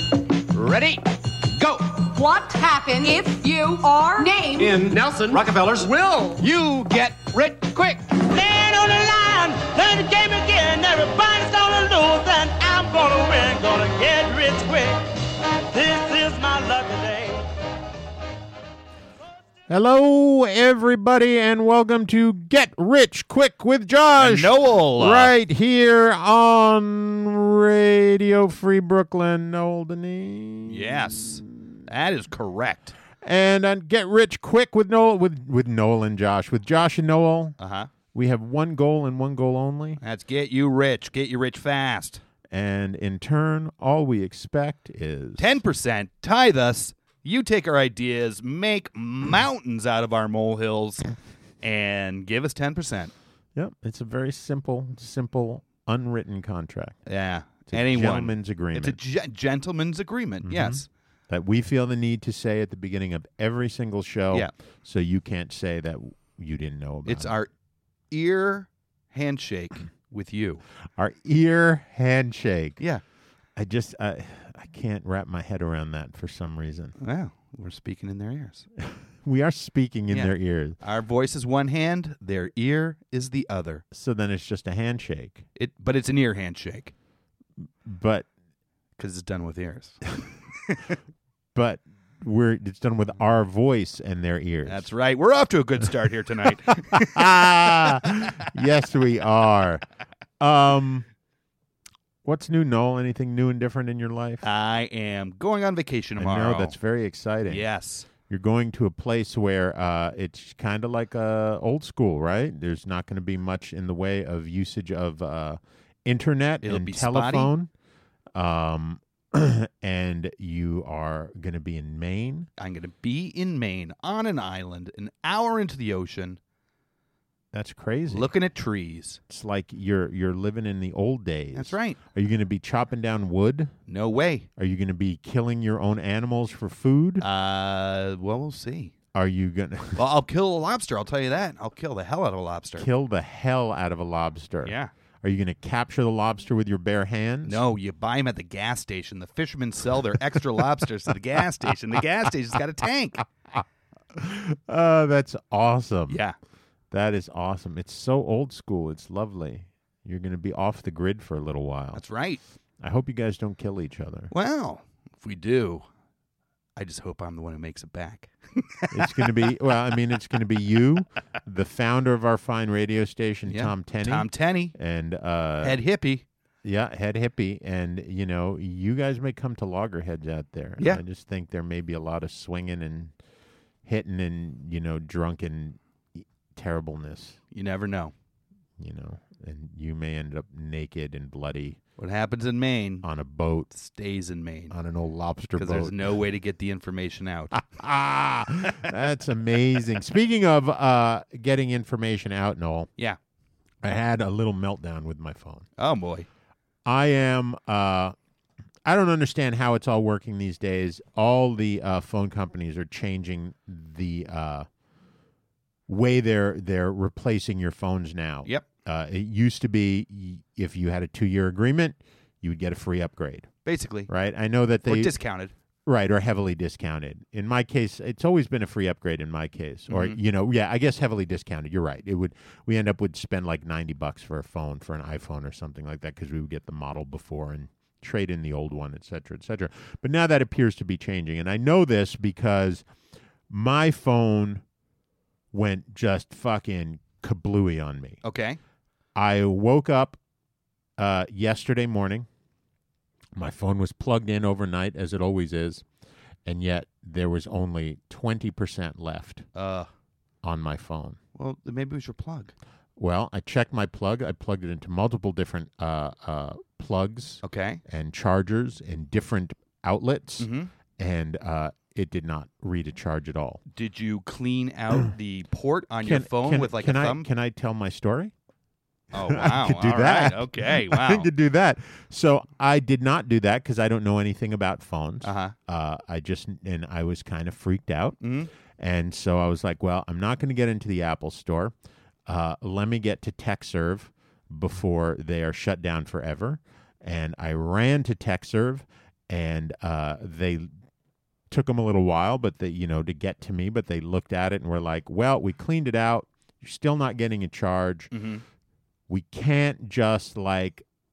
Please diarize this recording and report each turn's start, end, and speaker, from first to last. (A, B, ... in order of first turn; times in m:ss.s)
0:00.5-0:01.9 A
0:02.0-0:04.8 B
0:04.6-0:08.1 A
0:08.2-0:15.0 C
0:15.7-0:17.5 C
0:19.7-0:31.4 D
0:24.2-0:25.3 E
0:30.7-0:33.0 E
0:33.2-0:37.6 D
0:37.6-0:37.9 E
0:38.1-0:40.0 D
0:40.0-0:42.2 E
0:42.5-0:45.6 D
0:45.4-0:51.1 E
0:51.6-0:53.1 E
0:53.6-0:57.0 D
0:57.1-1:00.9 E
0:57.7-0:59.0 D
1:00.4-1:07.4 D
1:07.0-1:07.5 E
1:08.1-1:10.6 E
1:11.0-1:12.8 D
1:13.6-1:17.0 D
1:17.0-1:18.7 E
1:18.8-1:20.8 D
1:20.1-1:23.8 E
1:23.9-1:25.4 D
1:25.6-1:26.9 E
1:27.8-1:28.3 D
1:29.0-1:30.0 E
1:30.7-1:31.0 E
1:31.6-1:34.9 D
1:34.7-1:38.1 E
1:36.9-1:39.8 D
1:40.4-1:41.1 D
1:42.2-1:44.4 D
1:44.4-1:46.8 E
1:46.2-1:47.6 D
1:47.5-1:48.1 E
1:48.3-1:57.7 D
1:56.6-1:57.5 E
1:58.3-2:02.5 D
2:02.6-2:06.4 E
2:07.5-2:08.3 D
2:08.1-2:09.2 E
2:09.3-2:13.8 D
2:11.5-2:12.0 E
2:13.9-2:14.5 E
2:14.6-2:17.2 D
2:17.2-2:18.9 E
2:19.1-2:20.0 D
2:20.0-2:22.9 E
2:22.8-2:27.6 D
2:24.6-2:24.9 E
2:27.4-2:33.2 E
2:34.1-2:36.2 D
2:36.1-2:36.4 E
2:36.9-2:42.0 D
2:41.9-2:42.4 E
2:42.8-2:44.3 D
2:44.3-2:45.9 E
2:46.8-2:49.4 E
2:48.9-2:55.8 D
2:53.5-2:54.7 E
2:55.6-2:56.2 E
2:56.6-3:03.1 D
3:03.8-3:07.4 D
3:07.5-3:08.1 E
3:08.8-3:11.8 D
3:12.0-3:13.0 E
3:13.0-3:13.7 D
3:13.7-3:14.7 E
3:14.7-3:16.0 D
3:15.6-3:17.6 E
3:17.5-3:22.9 D
3:23.8-3:25.7 D
3:25.8-3:26.3 E
3:26.8-3:28.2 D
3:28.8-3:34.7 D
3:35.9-3:43.5 D
3:43.6-3:44.1 E
3:44.1-3:45.1 D
3:44.9-3:45.5 E
3:45.9-4:02.9 D
3:49.9-3:50.2 E
4:03.5-4:04.6 D
4:05.5-4:08.2 D
4:08.2-4:08.6 E
4:09.2-4:10.2 D
4:11.0-4:12.3 D
4:13.4-4:15.8 D
4:16.4-4:19.5 D
4:19.6-4:19.9 E
4:20.4-4:21.2 D
4:21.4-4:22.5 E
4:23.0-4:33.6 D
4:27.4-4:27.8 E
4:30.4-4:30.7 E
4:33.7-4:37.3 E
4:36.0-4:38.3 D
4:39.1-4:41.3 E
4:39.2-4:48.2 D
4:45.2-4:45.5 E
4:48.2-4:48.5 E
4:48.7-4:51.7 D
4:52.3-5:00.7 D
5:01.5-5:08.1 D
5:08.1-5:08.4 E
5:09.1-5:10.8 D